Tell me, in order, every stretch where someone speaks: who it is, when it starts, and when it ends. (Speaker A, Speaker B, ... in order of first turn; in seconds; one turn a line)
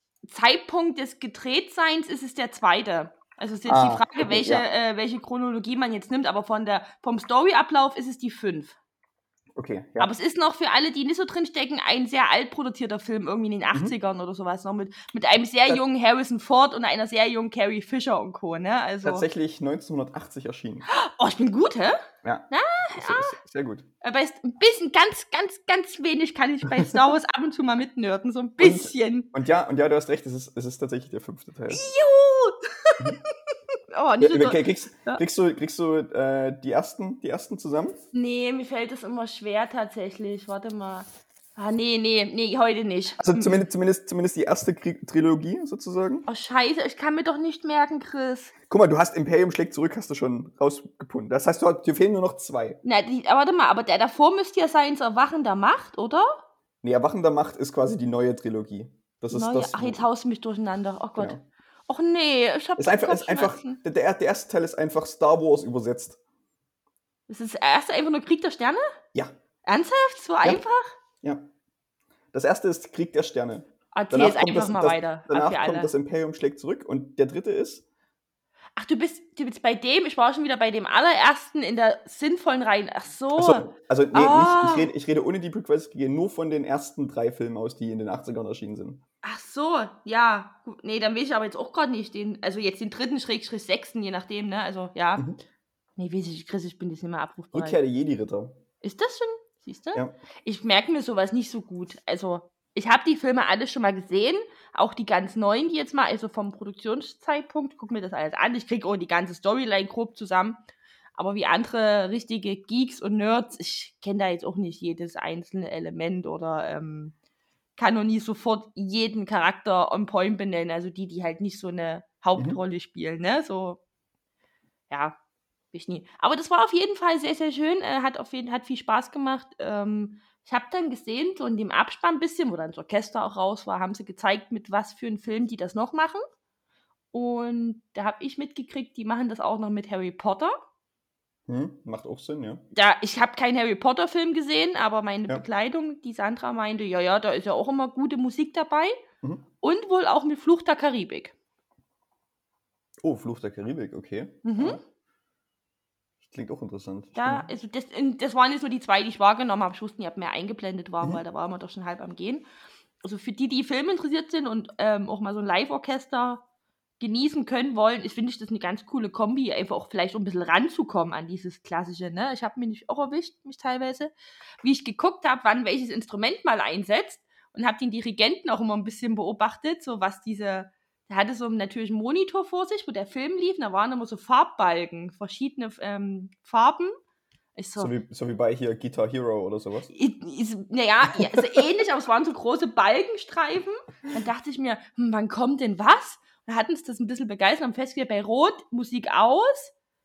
Speaker A: 0.3-8.8
Speaker B: 3.7-4.6
Speaker B: 9.6-10.1
Speaker A: 10.0-19.2
Speaker B: 19.0-20.9
Speaker A: 20.9-22.0
Speaker B: 22.2-23.8
Speaker A: 22.5-23.3
Speaker A: 24.0-29.3
Speaker B: 26.7-27.0
Speaker B: 28.6-31.9
Speaker A: 31.7-35.2
Speaker B: 34.2-38.0
Speaker A: 38.1-43.6
Speaker B: 43.2-46.2
Speaker A: 46.3-48.5
Speaker B: 48.7-52.8
Speaker A: 52.8-56.3
Speaker B: 56.8-60.0
Speaker A: 59.3-61.4
Speaker B: 61.1-61.4
Speaker A: 61.9-63.8
Speaker B: 62.8-66.2
Speaker A: 67.3-68.8
Speaker A: 69.7-70.9
Speaker B: 72.3-77.8
Speaker A: 73.9-75.9
Speaker A: 78.8-84.9
Speaker B: 83.3-89.0
Speaker A: 89.2-95.2
Speaker A: 96.0-97.8
Speaker B: 97.5-98.6
Speaker A: 98.8-110.6
Speaker A: 111.2-117.1
Speaker A: 117.8-123.8
Speaker A: 124.9-125.2
Speaker A: 125.7-136.2
Speaker A: 137.1-140.5
Speaker B: 141.5-142.6
Speaker A: 142.7-149.0
Speaker A: 149.6-151.3
Speaker B: 153.0-154.8
Speaker A: 154.4-154.8
Speaker B: 156.2-157.5
Speaker A: 157.2-162.4
Speaker A: 163.0-166.4
Speaker A: 167.0-186.9
Speaker A: 187.6-187.9
Speaker B: 187.8-189.9
Speaker A: 189.9-199.7
Speaker B: 191.1-191.5